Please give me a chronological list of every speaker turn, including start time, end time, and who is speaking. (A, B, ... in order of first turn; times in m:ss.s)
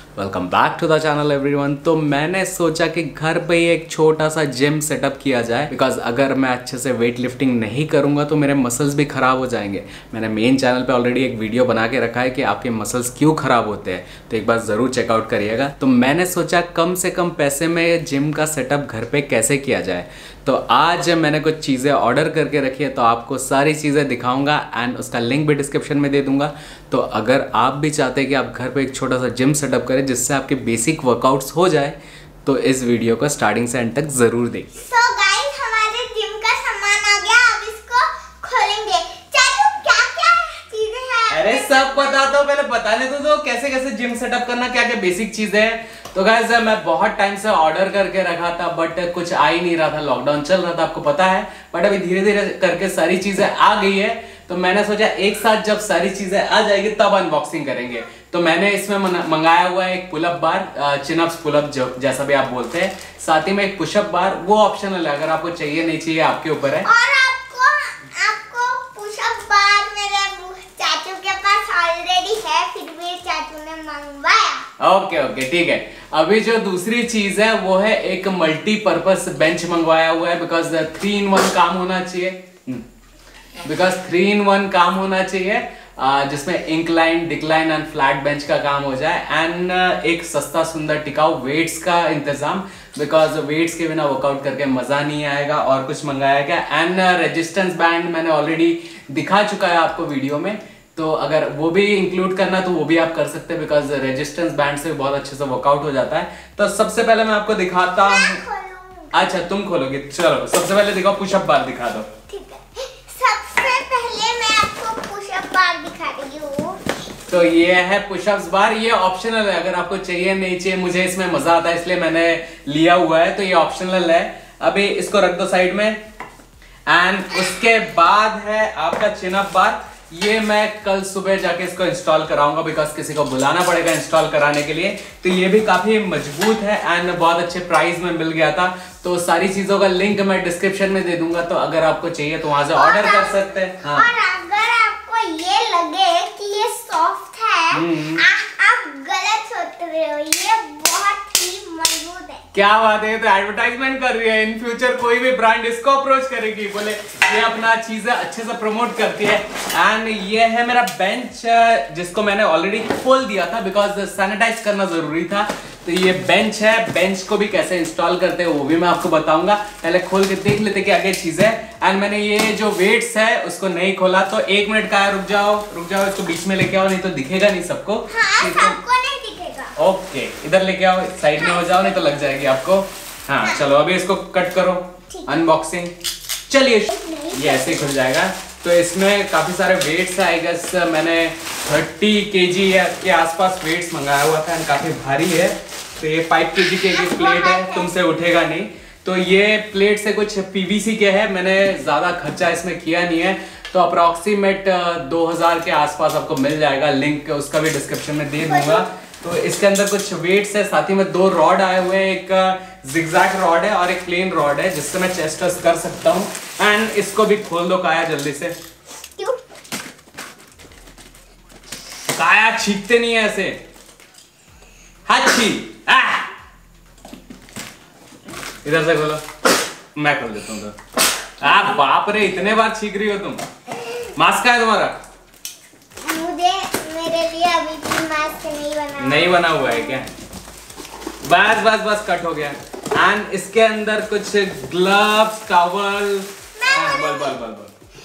0:00.2-0:34.7 A
0:34.8-0:42.3 B
0:41.3-1:06.9 A
1:06.8-1:14.6 B
1:14.8-1:22.8 A
1:23.6-1:48.4 A
1:48.0-1:49.3 B
1:49.1-1:52.1 A
1:52.3-1:56.8 B
1:57.3-2:06.0 A
2:06.9-2:24.1 A
2:22.7-2:32.4 B
2:27.7-2:28.2 A
2:32.5-2:58.8 A
2:58.1-2:59.7 B
2:59.8-3:05.9 A
3:01.4-3:02.4 B
3:06.5-3:38.5 A
3:06.9-3:08.0 B
3:16.6-3:17.9 B
3:28.5-3:28.8 B
3:39.1-3:39.4 B
3:42.1-3:43.6 A
3:45.1-3:46.3 A
3:48.6-3:49.2 A
3:49.9-3:50.8 A
3:51.4-3:53.4 A
3:54.2-3:54.9 A
3:56.0-4:00.0 B
3:59.0-4:00.1 A
4:01.2-4:07.7 A
4:06.6-4:07.4 B